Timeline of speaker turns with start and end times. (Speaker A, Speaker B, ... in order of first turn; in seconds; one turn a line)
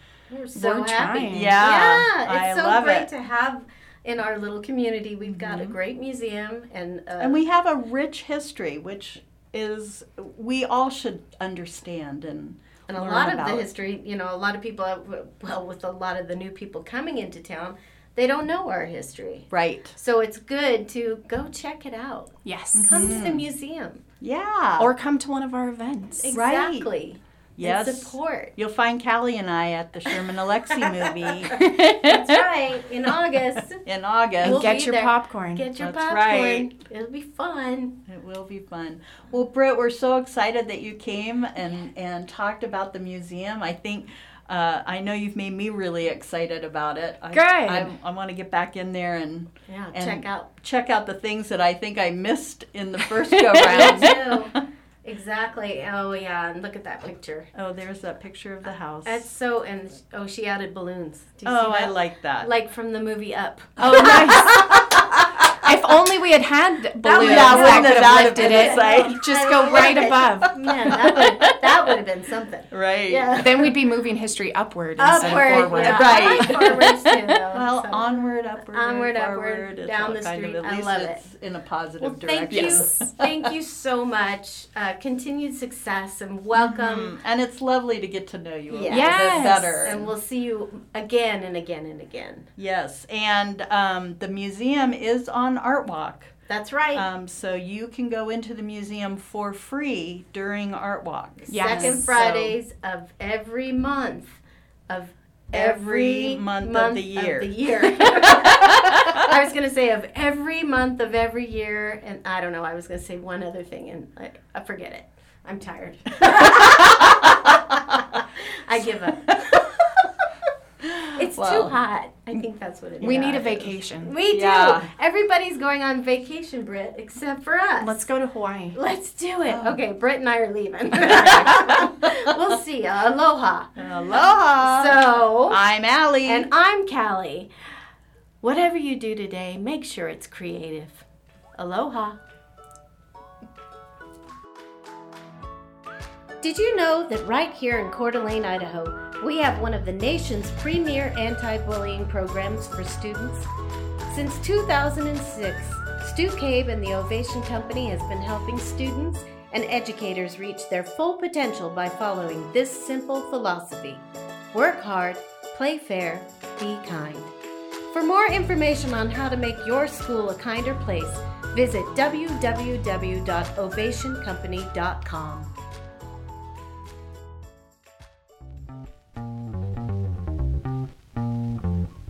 Speaker A: 0.3-7.4
Speaker B: 0.5-1.7
Speaker C: 1.3-3.1
Speaker C: 5.2-5.8
Speaker C: 7.2-13.7
Speaker A: 12.9-22.3
Speaker C: 19.5-19.9
Speaker B: 22.4-23.3
Speaker C: 22.8-23.4
Speaker A: 22.8-24.0
Speaker C: 24.2-24.9
Speaker B: 24.8-26.4
Speaker A: 26.2-28.5
Speaker C: 26.3-26.9
Speaker C: 27.6-31.6
Speaker A: 30.8-33.8
Speaker B: 31.5-32.4
Speaker C: 33.7-34.6
Speaker A: 34.4-38.0
Speaker B: 34.4-35.6
Speaker C: 35.8-36.7
Speaker C: 38.1-54.5
Speaker B: 47.3-47.9
Speaker A: 49.7-50.5
Speaker B: 53.5-54.1
Speaker A: 53.6-57.5
Speaker C: 57.5-59.3
Speaker A: 59.0-64.8
Speaker C: 61.5-62.5
Speaker B: 63.8-64.9
Speaker C: 63.8-65.7
Speaker B: 65.5-71.0
Speaker A: 67.0-73.8
Speaker C: 67.1-70.0
Speaker C: 70.6-71.9
Speaker C: 72.7-73.3
Speaker B: 73.4-76.9
Speaker A: 75.0-78.1
Speaker C: 75.1-76.9
Speaker C: 77.5-83.3
Speaker A: 78.7-81.3
Speaker A: 82.0-87.1
Speaker B: 82.5-83.0
Speaker C: 86.6-90.1
Speaker A: 88.7-92.5
Speaker B: 88.9-90.0
Speaker C: 92.6-96.3
Speaker A: 96.5-97.1
Speaker C: 96.9-102.6
Speaker A: 101.5-120.0
Speaker B: 101.5-102.1
Speaker C: 105.5-109.2
Speaker C: 116.3-117.7
Speaker C: 119.2-119.7
Speaker C: 120.8-121.8
Speaker A: 121.1-127.9
Speaker B: 123.0-124.1
Speaker C: 124.3-124.9
Speaker B: 127.8-128.8
Speaker A: 128.7-133.8
Speaker C: 129.5-129.8
Speaker C: 131.1-131.8
Speaker C: 133.8-136.5
Speaker A: 134.6-135.6
Speaker A: 136.2-137.5
Speaker A: 138.4-141.0
Speaker A: 141.6-142.2
Speaker A: 146.4-153.5
Speaker A: 154.1-167.3
Speaker A: 167.9-175.5